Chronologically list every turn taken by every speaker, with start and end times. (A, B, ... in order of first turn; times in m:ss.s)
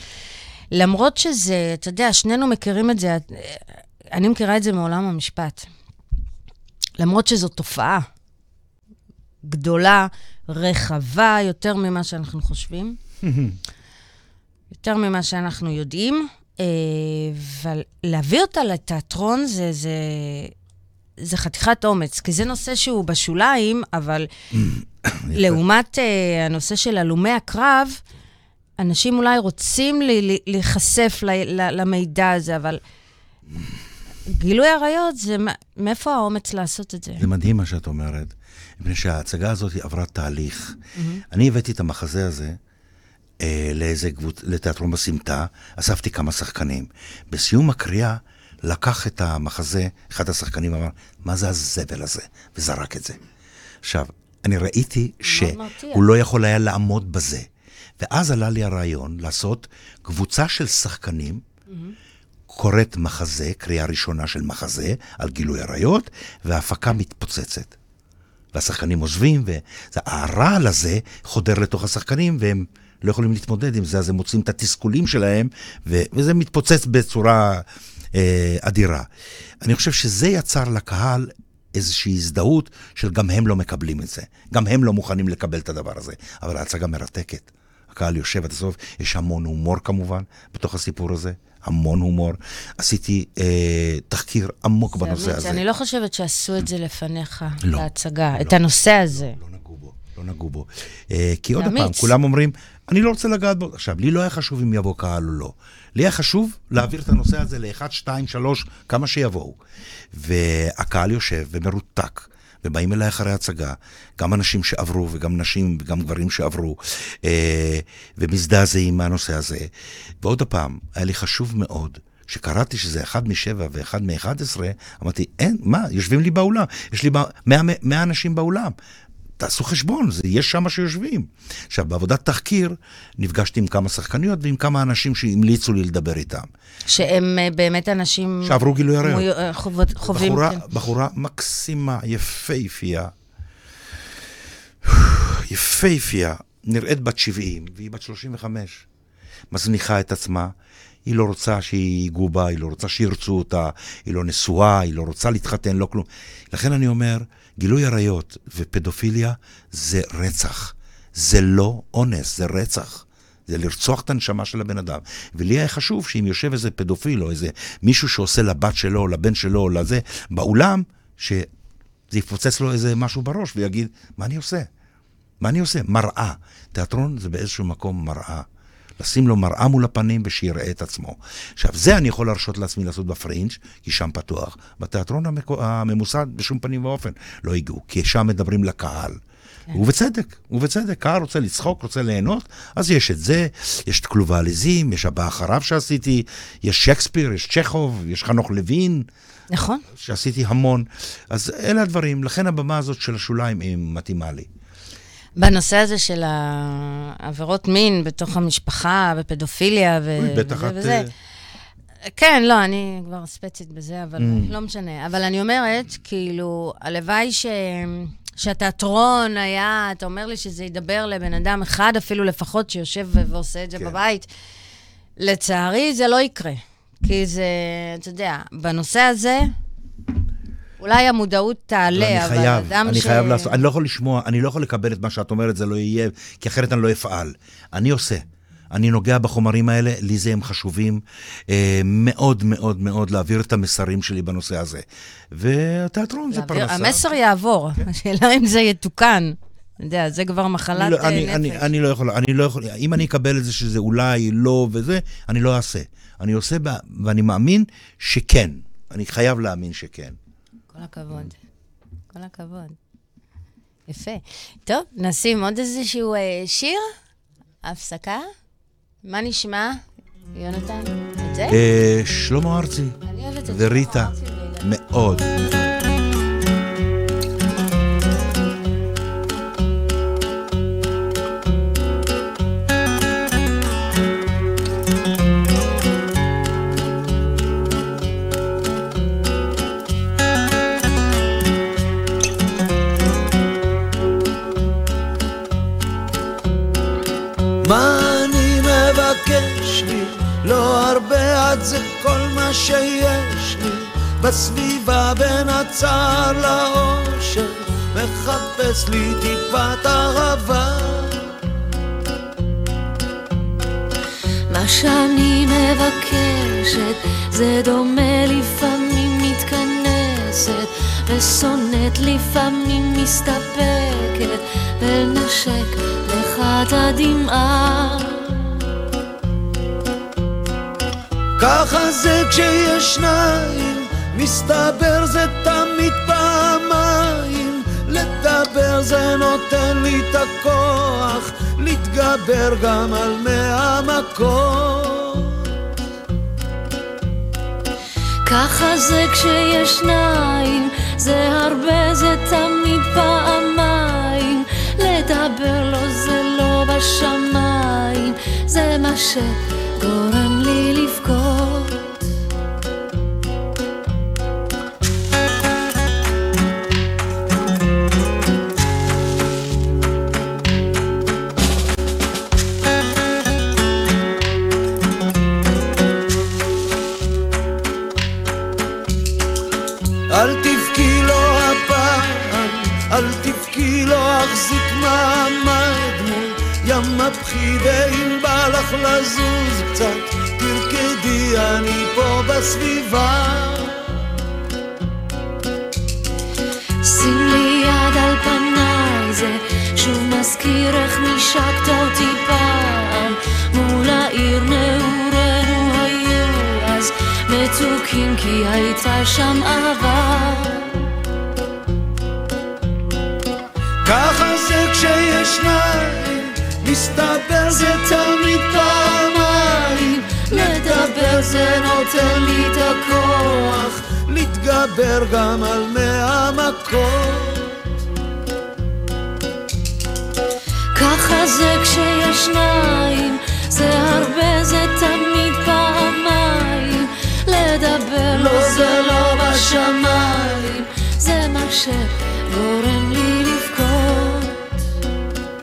0:00.7-0:05.7 A
0:07.0-0:08.0 A
0:09.4-0:13.0 A
0:13.2-0:13.6 B
0:14.7-0:20.5 A
0:21.2-0:24.3 A
0:24.5-0:25.6 B
0:25.3-0:28.0 A
0:28.8-0:32.8 A
0:34.3-0:37.2 A
0:37.2-0:40.8 B
0:41.0-0:41.2 A
0:41.3-0:42.6 B
0:43.4-0:53.2 B
0:53.8-0:57.5 B
0:55.2-0:56.0 A
0:58.0-1:01.4 B
1:01.7-1:01.9 A
1:02.5-1:07.8 B
1:08.5-1:19.1 B
1:19.6-1:35.6 B
1:35.0-1:39.4 A
1:37.6-1:49.6 B
1:41.6-1:42.1 A
1:50.1-2:08.8 B
2:09.4-2:16.5 B
2:16.9-2:20.6 A
2:18.4-2:19.3 B
2:20.0-2:23.1 B
2:24.8-2:28.8 B
2:29.5-2:51.5 B
2:52.1-2:54.7 B
2:55.4-2:58.5 B
2:59.0-3:09.2 B
3:09.7-3:19.1 B
3:19.5-3:19.8 A
3:19.9-3:24.5 B
3:25.4-3:31.1 A
3:30.2-3:31.1 B
3:32.0-3:44.3 A
3:34.2-3:34.5 B
3:45.2-3:49.5 A
3:50.8-3:53.6 A
3:51.9-4:07.1 B
4:06.3-4:11.7 A
4:10.7-4:20.2 B
4:20.7-4:21.4 A
4:22.1-4:22.8 A
4:23.9-4:26.9 A
4:27.6-4:28.2 A
4:29.0-4:29.8 A
4:30.3-4:31.6 A
4:31.5-4:35.8 B
4:33.0-4:34.7 A
4:57.6-5:11.3 C
5:14.5-5:28.6 D
5:31.4-5:45.5 C
5:48.2-6:02.0 D
6:20.1-6:34.0 C
6:36.8-6:50.8 D
6:53.8-7:07.6 C
7:00.0-7:03.5 D
7:10.7-7:24.4 D
7:18.1-7:20.4 C